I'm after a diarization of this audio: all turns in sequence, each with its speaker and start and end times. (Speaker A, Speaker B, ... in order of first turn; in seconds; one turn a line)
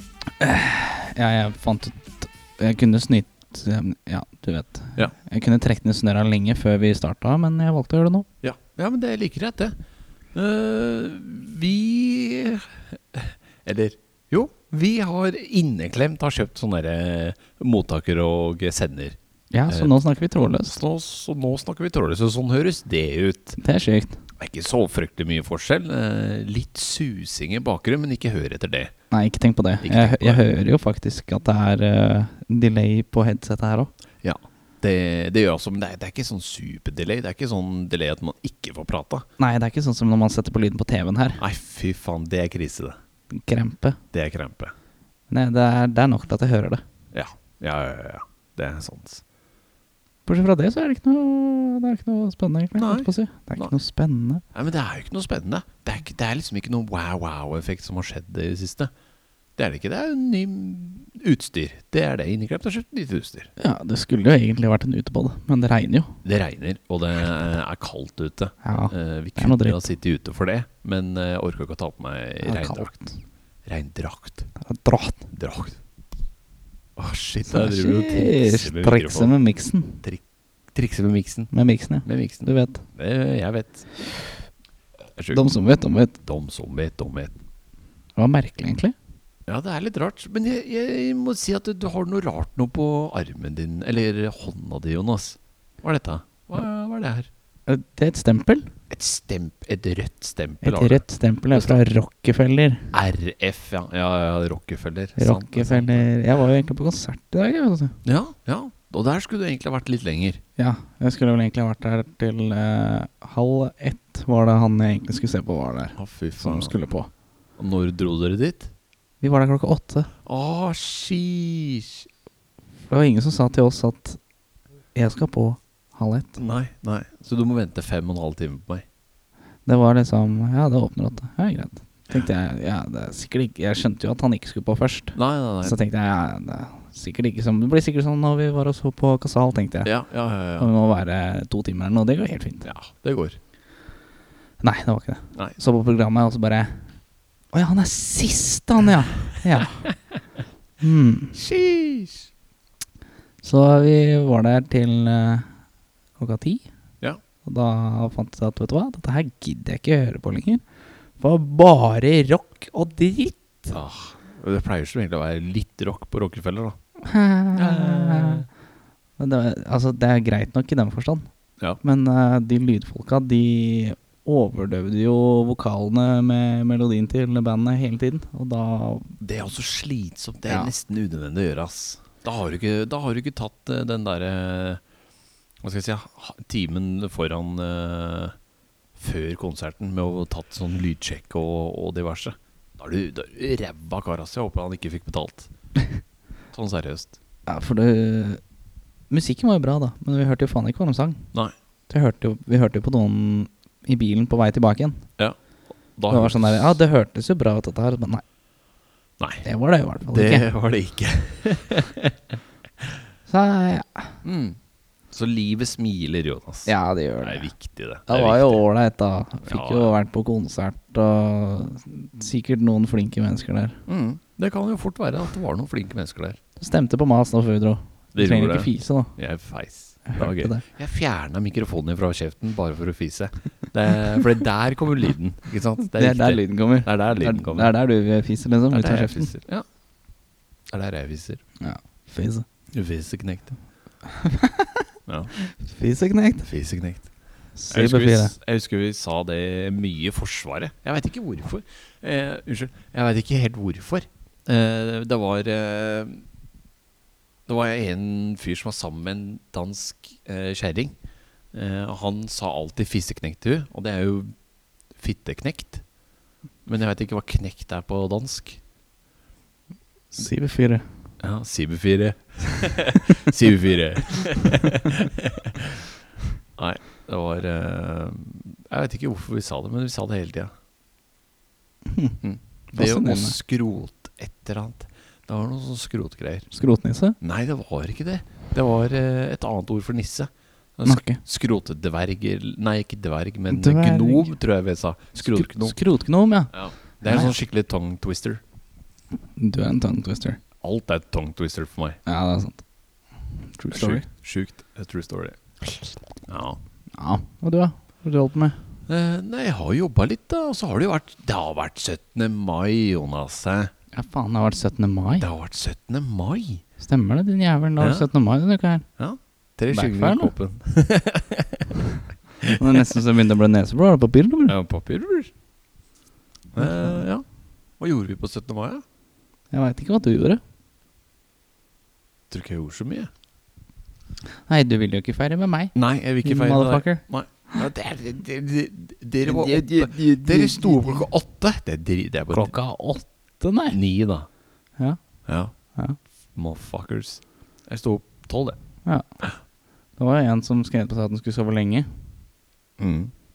Speaker A: 0.4-8.3
Speaker B: 8.4-9.8
Speaker B: 10.3-19.2
Speaker A: 19.5-20.8
Speaker B: 20.7-23.6
Speaker A: 23.6-24.2
Speaker B: 24.4-28.9
Speaker A: 29.1-33.9
Speaker B: 29.8-30.4
Speaker B: 34.2-39.2
Speaker A: 39.4-41.4
Speaker B: 41.4-43.0
Speaker A: 43.3-44.0
Speaker B: 44.1-44.7
Speaker A: 45.3-46.8
Speaker B: 47.1-49.2
Speaker A: 50.3-54.4
Speaker B: 52.8-53.7
Speaker B: 54.5-58.9
Speaker B: 59.6-63.5
Speaker A: 63.6-66.2
Speaker B: 66.2-73.0
Speaker A: 68.6-69.9
Speaker A: 72.4-73.2
Speaker B: 73.7-74.5
Speaker A: 74.6-75.2
Speaker B: 75.3-75.8
Speaker B: 77.0-79.4
Speaker A: 77.5-80.0
Speaker B: 80.7-81.5
Speaker A: 81.5-82.8
Speaker B: 82.0-84.5
Speaker B: 85.2-85.5
Speaker A: 85.3-86.2
Speaker B: 86.2-87.3
Speaker A: 88.2-88.9
Speaker B: 89.5-97.3
Speaker A: 97.7-98.7
Speaker B: 98.9-101.8
Speaker A: 100.6-102.9
Speaker B: 102.9-106.1
Speaker A: 105.2-108.0
Speaker B: 108.0-110.4
Speaker A: 110.6-117.1
Speaker B: 116.0-116.8
Speaker B: 117.6-118.7
Speaker A: 119.2-120.1
Speaker B: 120.3-122.1
Speaker A: 122.9-124.2
Speaker A: 124.9-126.4
Speaker B: 126.4-128.8
Speaker A: 129.7-139.9
Speaker B: 135.2-135.8
Speaker B: 139.8-140.7
Speaker A: 140.6-142.7
Speaker B: 142.7-143.4
Speaker A: 144.6-146.9
Speaker A: 147.5-149.9
Speaker A: 150.8-151.4
Speaker B: 151.3-152.3
Speaker A: 153.4-155.6
Speaker A: 156.2-156.7
Speaker A: 157.4-160.6
Speaker A: 161.2-163.7
Speaker B: 163.7-166.8
Speaker A: 167.1-168.4
Speaker B: 167.5-168.5
Speaker A: 169.2-171.3
Speaker A: 171.8-179.2
Speaker B: 179.2-184.8
Speaker A: 180.5-180.7
Speaker B: 185.6-188.3
Speaker B: 189.0-195.5
Speaker B: 196.5-197.2
Speaker A: 197.5-198.4
Speaker A: 199.1-201.3
Speaker A: 201.9-205.1
Speaker B: 206.0-206.8
Speaker A: 206.1-208.2
Speaker B: 209.2-209.5
Speaker A: 209.4-210.5
Speaker B: 210.1-212.9
Speaker A: 213.3-214.2
Speaker B: 214.2-214.6
Speaker B: 215.1-218.6
Speaker A: 216.7-223.8
Speaker B: 219.4-219.9
Speaker B: 223.9-226.4
Speaker A: 226.6-229.1
Speaker B: 228.1-237.8
Speaker A: 230.1-230.6
Speaker A: 235.9-239.3
Speaker B: 238.7-239.7
Speaker B: 240.7-241.4
Speaker A: 241.6-242.4
Speaker B: 242.7-243.6
Speaker A: 244.1-244.8
Speaker B: 245.1-245.3
Speaker A: 245.4-246.5
Speaker B: 246.4-247.1
Speaker A: 247.6-248.3
Speaker B: 247.7-256.2
Speaker B: 257.5-260.9
Speaker B: 261.5-264.4
Speaker B: 264.9-265.8
Speaker B: 266.7-268.6
Speaker A: 270.1-270.8
Speaker B: 271.2-275.8
Speaker B: 276.6-280.5
Speaker A: 281.9-282.2
Speaker B: 282.2-286.5
Speaker A: 282.7-283.4
Speaker A: 286.5-287.2
Speaker B: 287.2-295.8
Speaker A: 290.9-291.2
Speaker A: 293.5-294.4
Speaker A: 295.2-297.4
Speaker B: 296.5-298.4
Speaker A: 299.4-300.4
Speaker B: 300.6-302.0
Speaker A: 302.1-302.6
Speaker A: 303.5-304.1
Speaker B: 303.7-305.4
Speaker B: 306.3-306.6
Speaker A: 307.0-308.6
Speaker B: 308.9-313.7
Speaker A: 313.9-315.3
Speaker B: 315.2-316.6
Speaker A: 316.8-318.9
Speaker B: 317.8-318.1
Speaker B: 319.0-321.8
Speaker A: 319.7-320.3
Speaker B: 322.4-323.0
Speaker A: 322.6-324.6
Speaker B: 324.5-325.3
Speaker B: 326.5-327.2
Speaker A: 326.6-327.0
Speaker B: 327.8-328.8
Speaker A: 329.5-330.4
Speaker B: 332.3-333.1
Speaker A: 334.5-337.7
Speaker B: 335.8-342.5
Speaker A: 339.2-341.1
Speaker A: 342.3-343.8
Speaker B: 343.7-344.3
Speaker A: 344.8-346.0
Speaker B: 345.3-345.5
Speaker B: 346.3-348.6
Speaker A: 350.0-351.9
Speaker B: 352.8-353.1